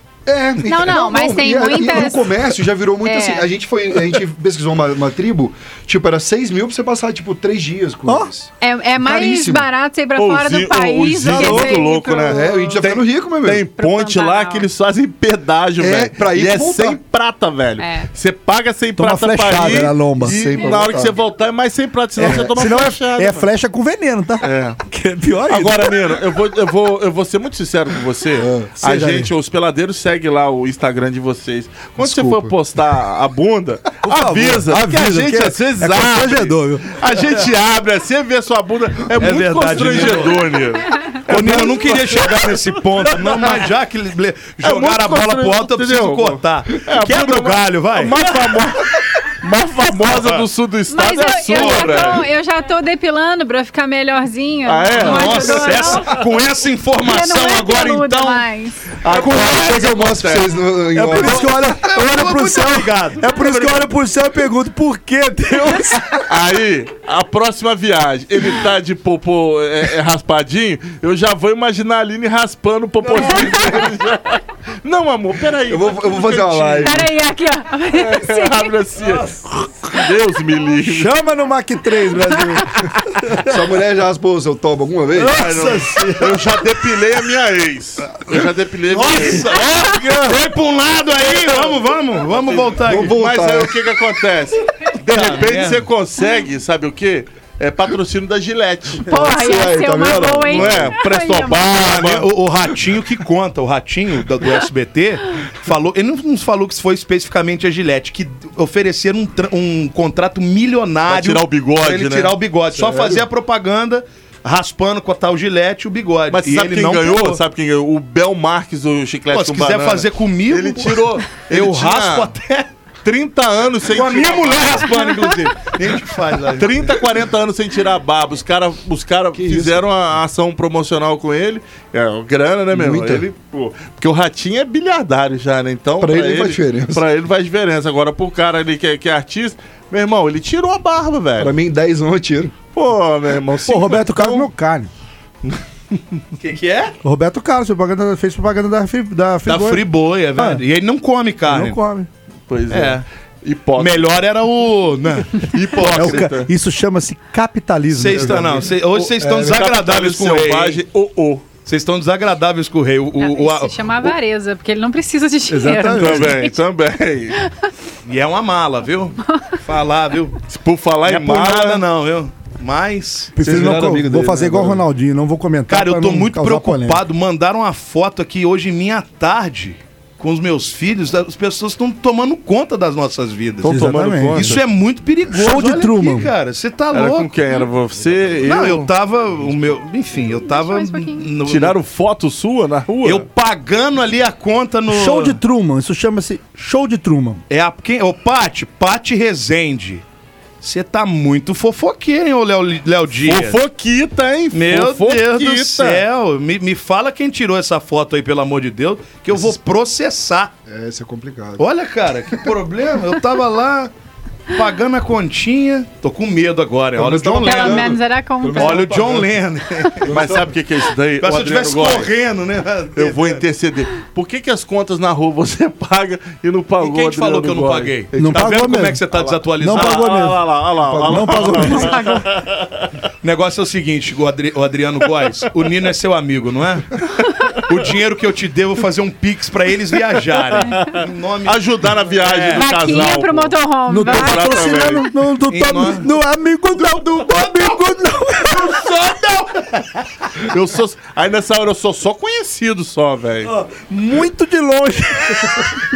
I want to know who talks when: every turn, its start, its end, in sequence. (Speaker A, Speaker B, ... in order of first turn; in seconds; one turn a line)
Speaker A: 0.3-9.7
Speaker B: 0.7-2.3
Speaker B: 3.0-3.5
Speaker B: 8.6-12.8
Speaker C: 10.2-23.4
Speaker D: 11.3-11.8
Speaker A: 12.3-13.7
Speaker B: 13.8-14.7
Speaker A: 15.8-17.0
Speaker B: 17.8-18.1
Speaker D: 19.0-20.4
Speaker A: 20.2-21.2
Speaker D: 22.2-26.0
Speaker C: 24.4-24.8
Speaker C: 25.5-43.6
Speaker A: 28.4-28.7
Speaker D: 28.8-29.3
Speaker A: 32.0-32.6
Speaker D: 34.0-37.0
Speaker E: 39.2-40.6
Speaker E: 41.3-48.3
Speaker C: 44.6-52.3
Speaker E: 50.1-50.5
Speaker B: 50.9-56.2
Speaker E: 51.5-52.2
Speaker C: 54.7-56.0
Speaker E: 55.0-58.5
Speaker B: 57.0-58.8
Speaker C: 59.0-60.5
Speaker E: 59.1-59.8
Speaker A: 59.1-61.5
Speaker D: 60.9-66.2
Speaker E: 61.1-63.3
Speaker C: 66.3-77.1
Speaker A: 73.2-73.5
Speaker A: 75.7-77.0
Speaker B: 76.8-78.7
Speaker C: 78.0-81.1
Speaker D: 80.8-83.5
Speaker A: 83.4-85.5
Speaker D: 85.1-86.5
Speaker C: 85.3-89.6
Speaker E: 88.9-93.4
Speaker D: 89.6-90.4
Speaker C: 91.4-91.7
Speaker C: 92.3-99.1
Speaker A: 92.8-93.8
Speaker E: 95.1-95.9
Speaker A: 99.0-101.0
Speaker B: 99.1-101.8
Speaker C: 100.4-102.3
Speaker E: 101.7-117.4
Speaker C: 111.1-112.4
Speaker A: 112.7-113.2
Speaker C: 116.3-122.3
Speaker E: 119.3-122.7
Speaker C: 123.0-125.4
Speaker E: 123.9-127.0
Speaker C: 126.6-141.6
Speaker A: 129.3-129.9
Speaker A: 132.7-133.3
Speaker A: 136.0-137.0
Speaker A: 141.4-142.6
Speaker C: 142.7-144.5
Speaker D: 143.7-144.9
Speaker E: 146.4-146.9
Speaker D: 147.0-150.6
Speaker E: 149.5-151.8
Speaker D: 151.5-152.1
Speaker C: 152.5-154.1
Speaker E: 152.7-153.1
Speaker E: 153.8-156.2
Speaker C: 155.4-156.5
Speaker D: 155.8-158.6
Speaker E: 157.9-160.8
Speaker C: 158.1-161.5
Speaker A: 159.2-159.7
Speaker E: 161.7-164.1
Speaker B: 163.2-166.6
Speaker D: 165.5-166.4
Speaker C: 165.9-167.4
Speaker E: 168.1-170.4
Speaker C: 170.5-171.8
Speaker E: 171.1-173.4
Speaker D: 173.4-177.0
Speaker A: 173.4-174.8
Speaker E: 175.7-187.3
Speaker C: 183.6-184.6
Speaker D: 183.6-184.6
Speaker D: 185.3-186.3
Speaker C: 186.9-188.9
Speaker E: 188.4-191.8
Speaker B: 190.4-191.3
Speaker C: 191.4-193.2
Speaker E: 193.0-195.4
Speaker D: 194.9-197.4
Speaker E: 197.5-200.0
Speaker E: 200.6-203.6
Speaker C: 203.2-206.0
Speaker E: 204.5-210.5
Speaker A: 210.7-211.7
Speaker E: 211.6-213.9
Speaker E: 214.5-218.0
Speaker A: 217.0-219.4
Speaker B: 217.4-218.9
Speaker E: 218.6-220.1
Speaker A: 220.0-220.6
Speaker C: 220.1-222.1
Speaker E: 221.2-223.4
Speaker C: 223.0-228.0
Speaker E: 226.8-230.3
Speaker D: 228.2-229.0
Speaker C: 229.2-232.9
Speaker D: 229.6-232.0
Speaker A: 230.9-231.9
Speaker B: 231.7-232.3
Speaker E: 233.2-237.0
Speaker C: 237.2-237.5
Speaker E: 237.6-242.7
Speaker C: 240.6-245.1
Speaker B: 242.5-244.7
Speaker D: 243.9-248.9
Speaker E: 245.5-246.1
Speaker E: 248.6-249.6
Speaker C: 250.5-253.5
Speaker D: 253.5-255.8